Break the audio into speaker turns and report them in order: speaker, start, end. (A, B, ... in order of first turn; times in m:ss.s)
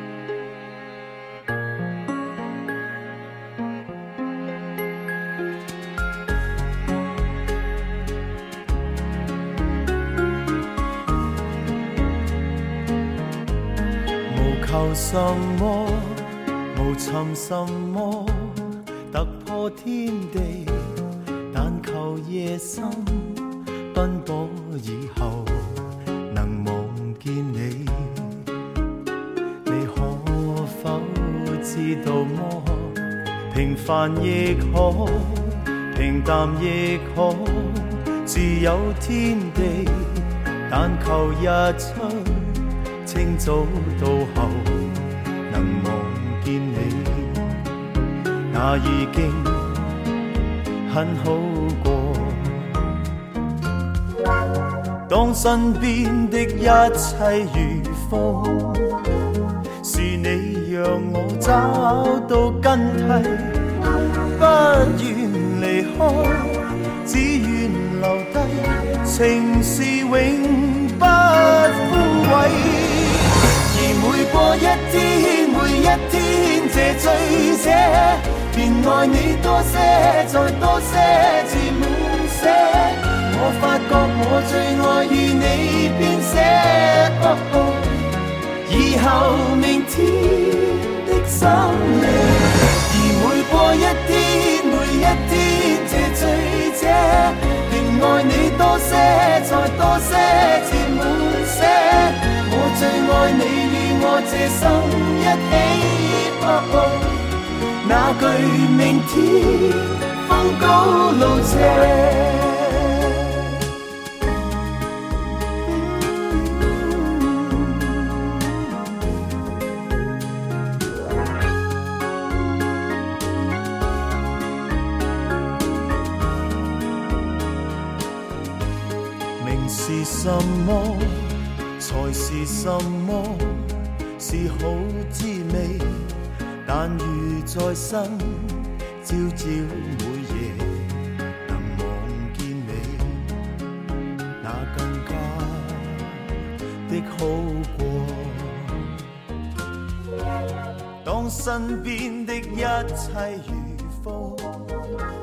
0:14.3-0:28.5 A
0:29.6-0:47.7 A
0:48.5-0:50.0 A
0:50.8-0:52.9 A
0:55.1-0:59.1 A
0:59.8-1:28.1 A
1:28.6-1:53.6 A
1:55.7-1:58.5 A
2:09.4-2:23.4 A
2:24.4-2:26.3 A
2:26.9-2:29.0 A
2:31.0-2:34.9 A